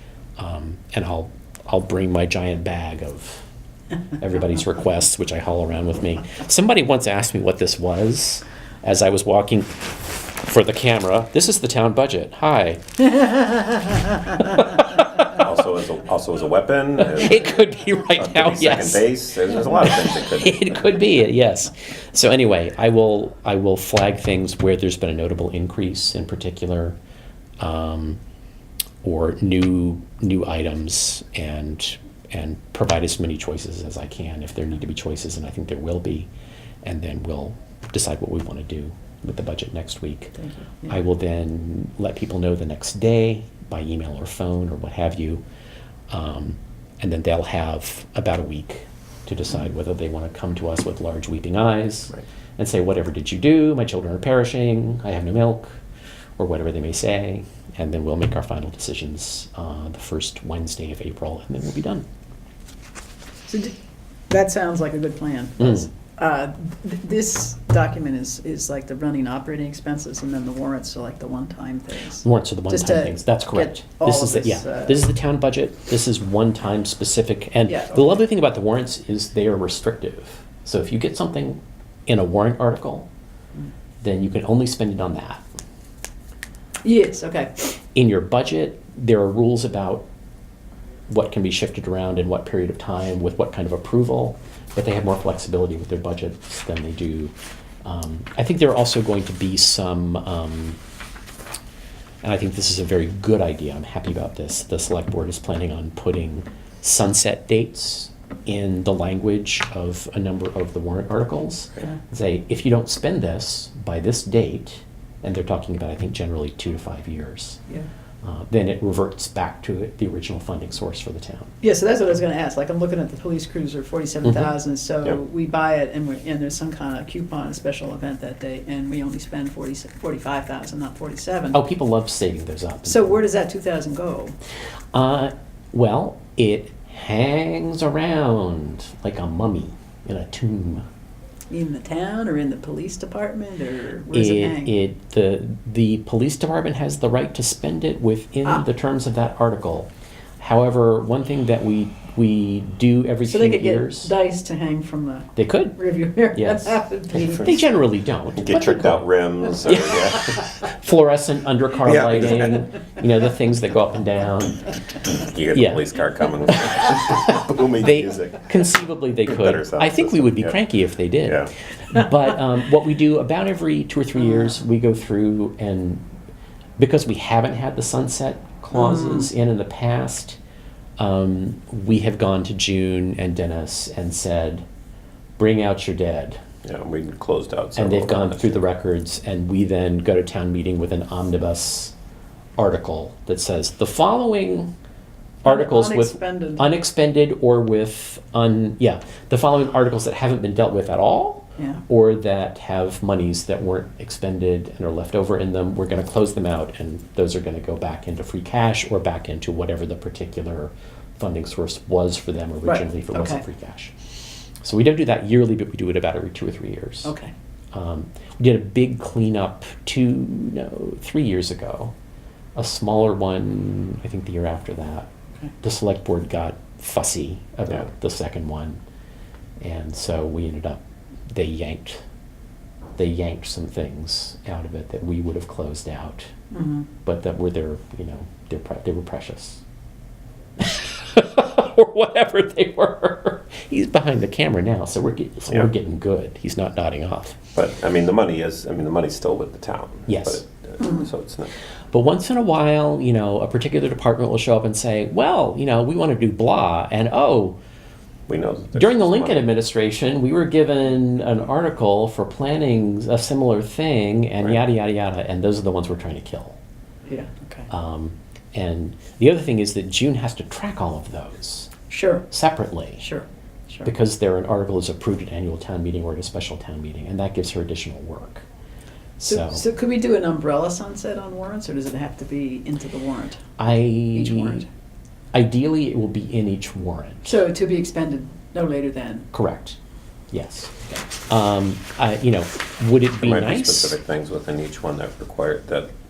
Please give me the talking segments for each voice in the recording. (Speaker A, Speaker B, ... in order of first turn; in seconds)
Speaker A: 0.4-3.4, 4.2-13.2, 14.3-15.0, 17.2-19.1, 19.8-27.0, 27.6-28.2, 29.0-36.3, 36.8-45.4, 46.1-55.8, 56.4-62.0, 65.6-65.9, 72.2-83.1, 84.0-85.4, 87.9-90.1, 91.1-97.3, 97.8-100.8, 102.2-117.6, 118.2-121.5, 124.2-124.5, 131.5-133.2, 134.9-140.8, 144.1-154.1, 155.4-159.1, 159.6-164.7, 165.5-165.9, 166.5-176.1, 176.8-180.4, 181.0-184.7, 185.4-186.4, 187.8-191.9, 192.6-194.7, 195.4-214.0, 214.6-217.1, 217.7-221.9, 222.6-225.1, 225.6-228.8, 229.6-232.0, 233.0-236.3, 237.0-239.6, 240.6-247.4, 250.1-250.4, 251.9-257.6, 258.8-266.6, 267.7-271.7, 272.3-273.1, 273.8-278.4, 279.2-279.6, 283.6-284.6, 285.3-287.4, 289.3-289.8, 290.3-294.0
Speaker B: 13.5-14.1, 40.4-40.9, 63.5-63.8, 64.3-75.0, 77.7-78.2, 86.8-87.6, 121.6-131.6, 132.8-134.4, 141.5-144.7, 153.2-157.7, 174.2-174.6, 178.8-179.3, 195.4-196.7, 212.7-213.4, 217.1-217.3, 236.5-236.9, 267.1-267.7, 271.9-272.3, 273.0-273.9, 279.2-283.4, 284.1-284.7, 287.2-289.2
Speaker C: 15.3-17.5, 18.2-21.0, 158.4-160.4, 161.8-162.7, 165.1-168.7, 169.3-170.6, 171.3-171.5, 186.6-188.6, 247.6-251.5, 258.3-259.5, 293.2-295.9